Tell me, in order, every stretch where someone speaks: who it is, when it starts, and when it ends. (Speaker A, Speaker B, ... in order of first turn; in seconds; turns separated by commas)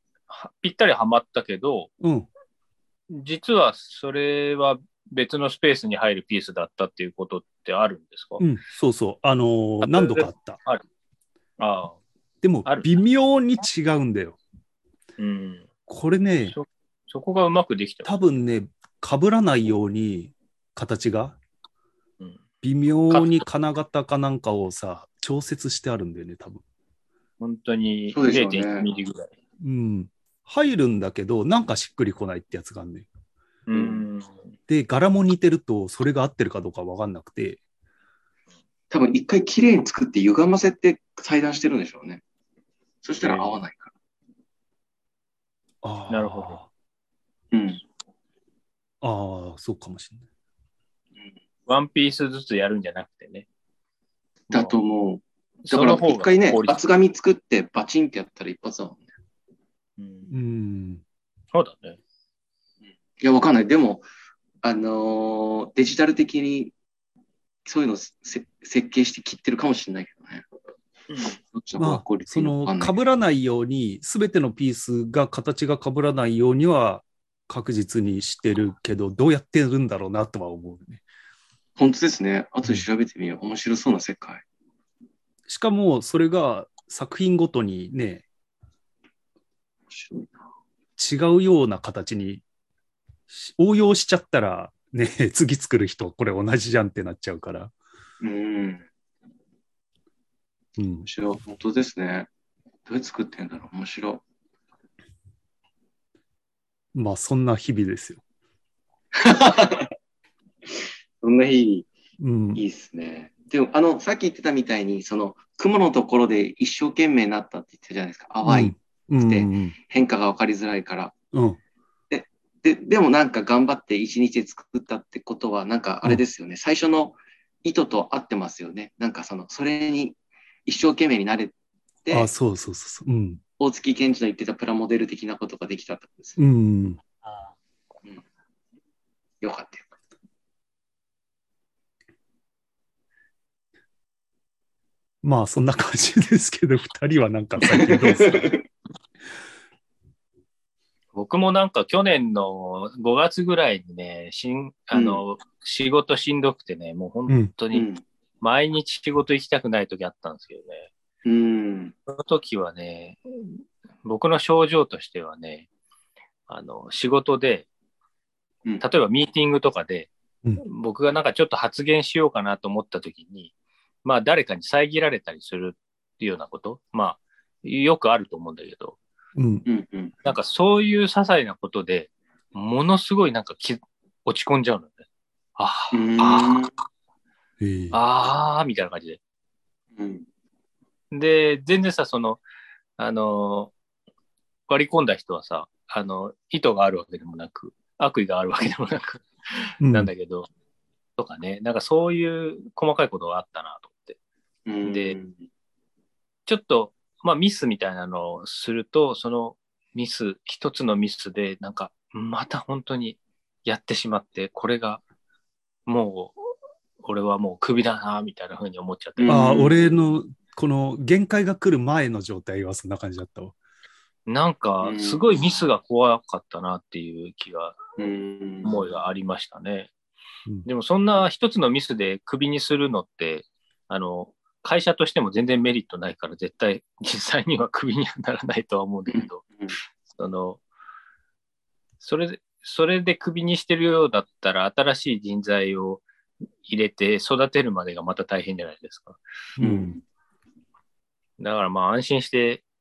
Speaker A: 0.3-1.9, Speaker B: 2.0-2.3, Speaker A: 3.1-8.4, Speaker B: 8.4-10.6, Speaker A: 9.8-10.8, Speaker A: 11.6-12.0, Speaker B: 12.4-14.4, Speaker A: 15.2-15.7, Speaker B: 15.9-16.6, Speaker A: 16.5-18.1, Speaker B: 18.1-21.4, Speaker B: 22.6-26.6, Speaker A: 23.1-23.4, Speaker A: 27.4-29.3, Speaker C: 28.1-28.9, Speaker B: 29.6-33.1, Speaker A: 33.7-34.3, Speaker C: 33.7-34.0, Speaker B: 34.7-37.6, Speaker C: 38.9-42.2, Speaker C: 43.0-43.9, Speaker A: 43.2-43.6, Speaker B: 45.8-46.7, Speaker A: 46.1-46.6, Speaker C: 47.5-47.8, Speaker B: 49.0-50.2, Speaker A: 51.7-53.5, Speaker C: 54.5-59.0, Speaker A: 55.6-56.8, Speaker A: 60.0-60.3, Speaker B: 60.3-61.0, Speaker A: 61.5-62.0, Speaker C: 63.2-64.0, Speaker C: 64.6-66.7, Speaker C: 67.6-70.5, Speaker A: 71.1-71.3, Speaker C: 71.4-73.0, Speaker B: 71.8-81.0, Speaker C: 81.8-84.4, Speaker B: 85.5-88.2, Speaker C: 89.9-90.4, Speaker B: 91.0-92.4, Speaker B: 93.3-97.7, Speaker C: 98.2-98.8, Speaker B: 100.8-101.1, Speaker C: 101.0-102.3, Speaker C: 102.9-104.2, Speaker B: 107.0-108.2, Speaker C: 109.1-109.9, Speaker C: 110.7-111.9, Speaker B: 112.2-112.6, Speaker C: 112.5-121.1, Speaker B: 118.4-119.8, Speaker B: 121.3-121.6, Speaker C: 122.1-132.3, Speaker B: 132.1-133.4, Speaker C: 133.6-136.4, Speaker B: 136.4-137.0, Speaker C: 139.4-139.9, Speaker B: 145.2-148.6, Speaker C: 147.7-148.6, Speaker A: 151.1-157.9, Speaker C: 154.9-155.2, Speaker C: 157.7-158.0, Speaker A: 158.4-160.9, Speaker C: 161.2-161.9, Speaker A: 162.1-165.7, Speaker A: 166.5-167.7, Speaker A: 168.8-173.5, Speaker A: 174.1-179.0, Speaker B: 179.4-179.6, Speaker C: 179.7-180.1, Speaker A: 180.2-185.0, Speaker A: 185.6-186.7, Speaker C: 185.9-186.7, Speaker B: 187.6-188.0, Speaker A: 187.9-189.2, Speaker C: 189.9-190.2, Speaker A: 191.1-192.4, Speaker A: 193.0-193.7, Speaker A: 194.7-200.5, Speaker B: 199.8-200.1, Speaker A: 201.2-204.2, Speaker C: 204.7-205.3, Speaker A: 204.8-205.2, Speaker A: 206.5-215.0, Speaker A: 215.9-216.4, Speaker A: 217.0-219.4, Speaker C: 219.2-219.9, Speaker B: 219.3-223.6, Speaker A: 224.3-227.8, Speaker C: 224.8-225.5, Speaker C: 228.0-228.8, Speaker A: 228.6-229.9, Speaker A: 230.7-239.5, Speaker C: 239.1-239.7, Speaker A: 240.1-240.6, Speaker A: 242.0-246.1, Speaker A: 246.7-249.2, Speaker B: 249.6-250.0, Speaker C: 249.6-250.0, Speaker A: 251.4-252.6